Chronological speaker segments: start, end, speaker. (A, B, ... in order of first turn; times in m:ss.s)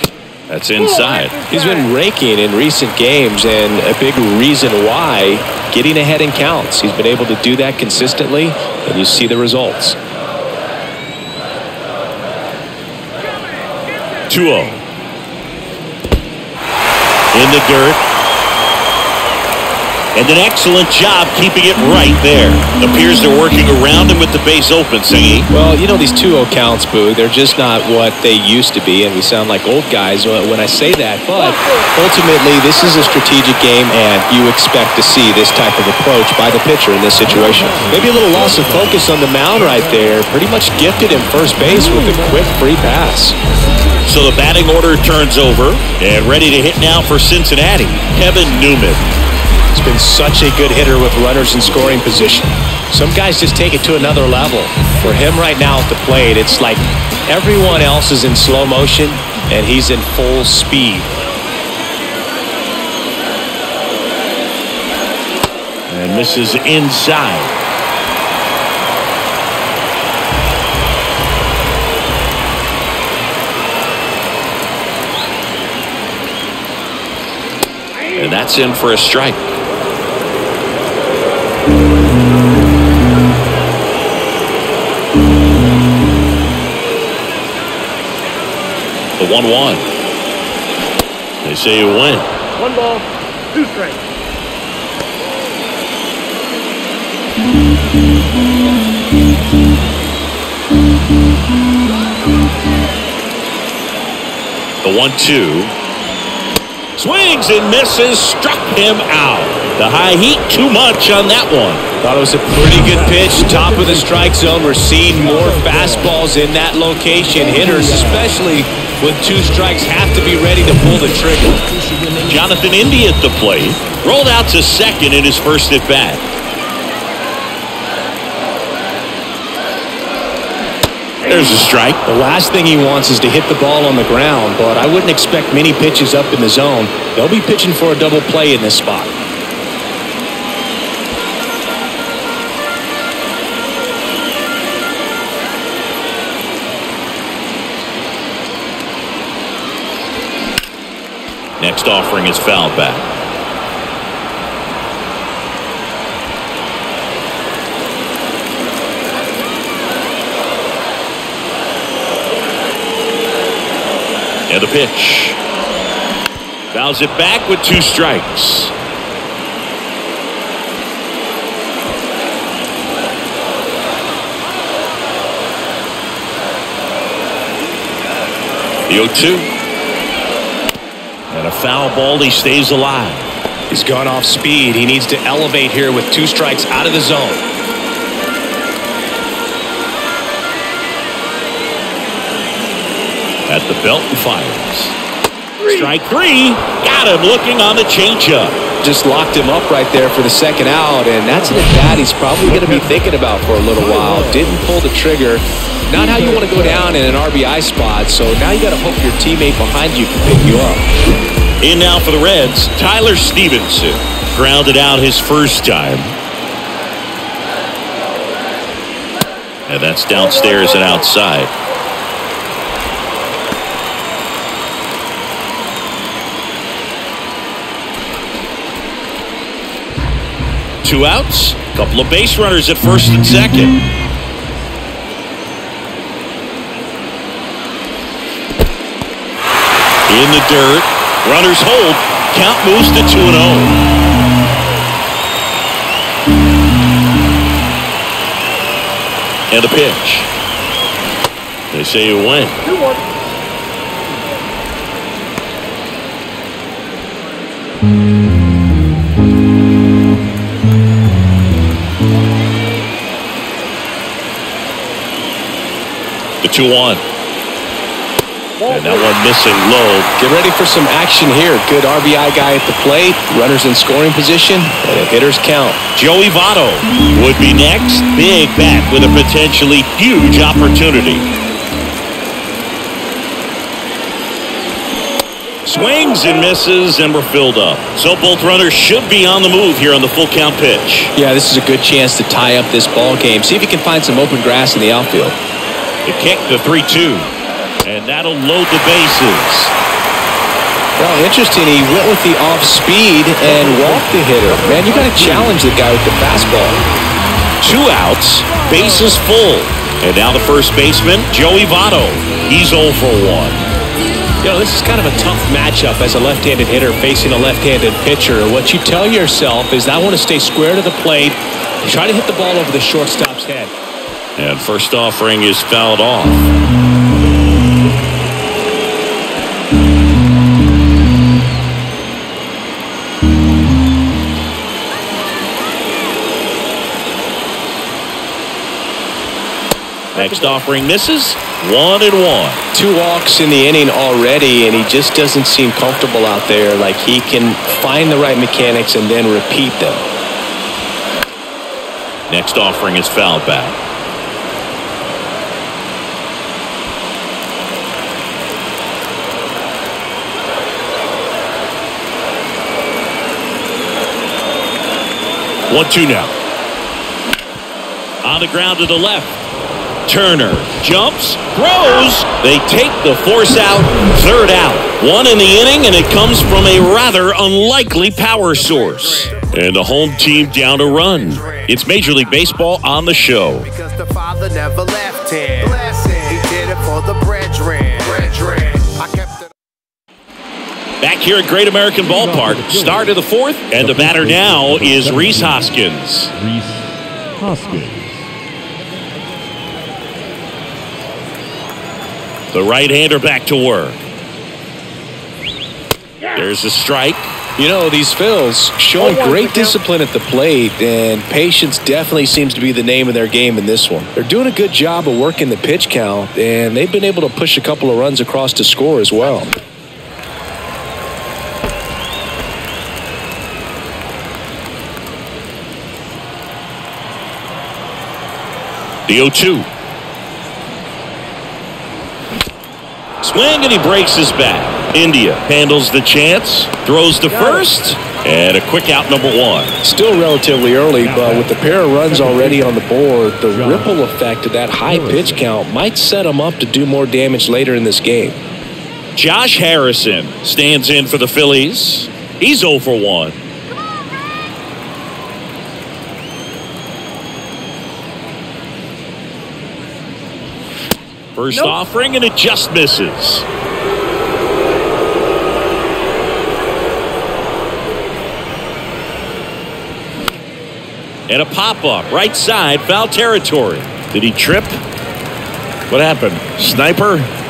0:00.5-0:01.4 A
0:00.8-0:01.9 B
0:01.5-0:10.0 C
0:14.3-0:14.8 A
0:17.3-0:18.0 A
0:20.1-0:25.5 A
0:25.5-0:43.3 C
0:31.4-0:31.9 B
0:37.2-0:40.0 D
0:44.0-0:49.1 A
0:49.7-1:01.1 C
1:05.9-1:07.6 A
1:18.0-1:18.4 B
1:18.2-1:19.6 A
1:29.2-1:29.9 A
1:31.4-1:32.3 A
1:32.6-1:34.0 B
1:44.8-1:45.7 A
1:47.0-1:51.8 A
1:52.0-2:01.7 C
1:52.5-1:54.3 D
1:55.0-1:56.2 D
1:57.5-1:58.3 D
2:01.7-2:02.5 E
2:02.2-2:06.2 A
2:11.2-2:12.0 A
2:11.3-2:11.6 B
2:12.0-2:19.1 C
2:31.6-2:33.1 A
2:44.5-2:45.4 A
2:46.7-2:48.7 A
2:58.9-2:59.5 A
3:01.3-3:03.3 A
3:03.7-3:07.4 C
3:13.5-3:15.0 A
3:15.6-3:15.9 B
3:15.6-3:18.6 A
3:18.8-3:30.8 C
3:21.4-3:21.8 D
3:22.4-3:24.6 D
3:25.9-3:27.0 D
3:31.6-3:36.1 A
3:39.7-3:41.5 A
3:40.1-3:41.1 B
3:50.8-3:53.8 A
4:00.1-4:03.8 A
4:09.5-4:10.3 A
4:11.7-4:12.6 A
4:12.6-4:13.0 B
4:26.4-4:27.0 A
4:28.6-4:29.1 B
4:28.6-4:30.1 A
4:30.2-4:35.8 C
4:35.9-4:41.3 A
4:45.6-4:51.1 A
4:51.1-4:55.4 C
4:56.0-4:57.3 A
4:57.8-4:59.7 A
5:01.0-5:06.8 C
5:03.4-5:05.6 D
5:07.6-5:13.7 A
5:14.4-5:23.7 C
5:24.4-5:26.5 A
5:40.1-5:42.6 A
5:40.2-5:40.6 B
5:42.7-5:50.0 C
5:52.3-5:53.8 A
6:05.7-6:06.3 A
6:08.2-6:09.4 A
6:10.0-6:23.7 A
6:21.3-6:21.8 E
6:23.5-6:29.4 E
6:31.0-6:36.3 A
6:32.0-6:33.1 D
6:33.8-6:35.7 D
6:36.3-6:38.3 D
6:42.5-6:44.0 A
6:46.2-6:46.5 B
6:46.3-6:47.3 A
6:47.6-6:59.5 C
6:49.0-6:49.8 B
7:09.1-7:09.7 A
7:13.2-7:19.8 A
7:17.3-7:17.6 B
7:19.8-7:28.4 C
7:21.0-7:22.8 D
7:23.5-7:24.0 D
7:24.8-7:25.5 D
7:29.1-7:33.4 A
7:41.4-7:43.4 A
7:51.3-7:54.8 A
7:55.9-7:57.3 A